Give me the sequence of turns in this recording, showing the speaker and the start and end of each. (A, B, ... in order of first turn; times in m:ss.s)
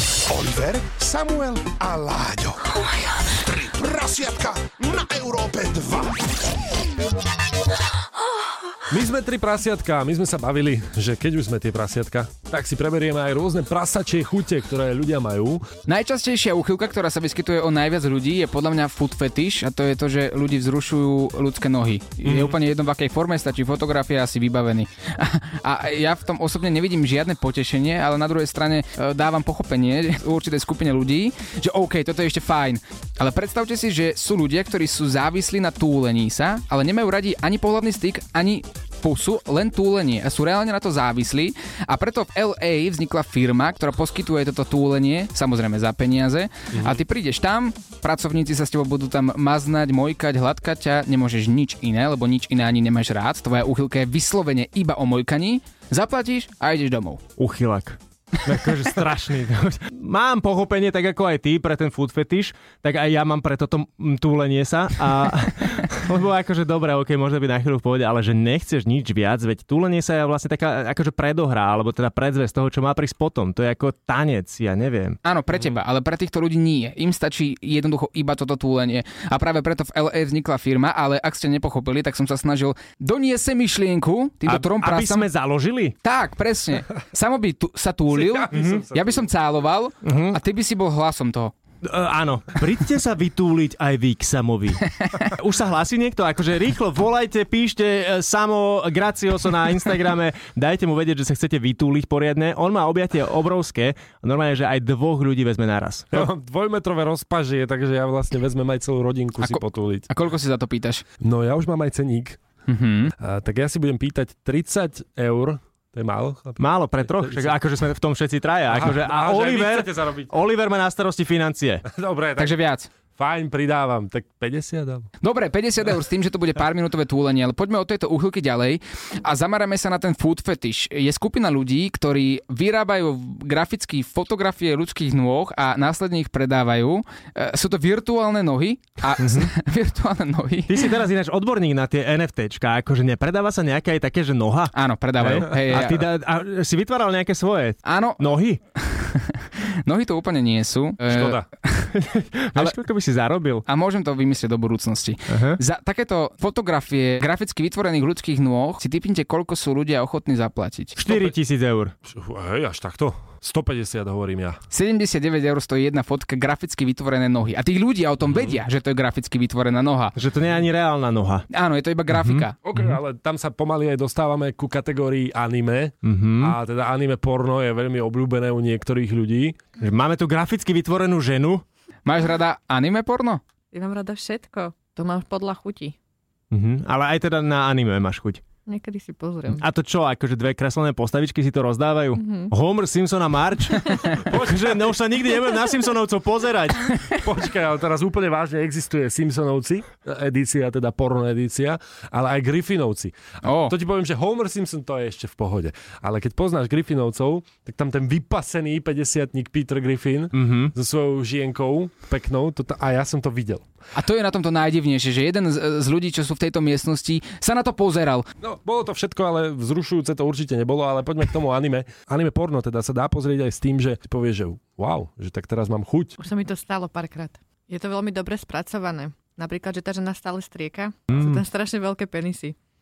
0:00.3-0:06.2 A
0:08.9-0:15.7 B
0:15.9-0:57.2 C
0:22.2-0:22.6 B
0:46.7-0:47.0 B
0:57.4-1:15.2 D
1:15.2-1:25.3 C
1:24.5-1:26.0 D
1:26.0-1:31.5 C
1:28.1-1:29.3 B
1:28.5-1:28.8 D
1:30.0-1:30.4 D
1:31.8-1:46.3 D
1:46.1-1:50.1 B
1:49.4-1:51.0 C
1:51.2-1:52.4 B
1:52.7-1:53.1 C
1:53.2-1:57.6 B
1:56.6-2:01.9 D
1:58.7-2:00.3 B
2:01.9-2:02.6 B
2:02.4-2:02.9 C
2:03.2-2:05.1 B
2:05.2-2:20.9 C
2:19.2-2:19.5 D
2:20.7-2:28.6 D
2:24.7-2:26.1 C
2:27.8-2:31.9 C
2:31.1-2:31.5 B
2:31.9-2:33.6 D
2:33.7-2:41.0 C
2:35.3-2:35.6 D
2:41.0-2:42.0 D
2:42.0-2:44.6 B
2:44.7-2:50.1 C
2:50.2-2:51.5 D
2:51.5-2:52.6 C
2:52.1-2:52.4 D
2:52.6-2:59.6 B
2:56.0-2:56.6 D
2:59.8-3:01.6 D
3:02.0-3:03.4 C
3:03.7-3:06.0 E
3:06.5-3:08.4 D
3:08.7-3:09.6 E
3:09.6-3:16.9 D
3:12.2-3:12.5 E
3:14.1-3:14.8 B
3:17.2-3:33.6 B
3:23.4-3:23.7 C
3:30.4-3:30.7 D
3:34.0-3:38.3 C
3:38.4-3:46.2 B
3:46.2-3:52.6 E
3:51.1-3:51.4 D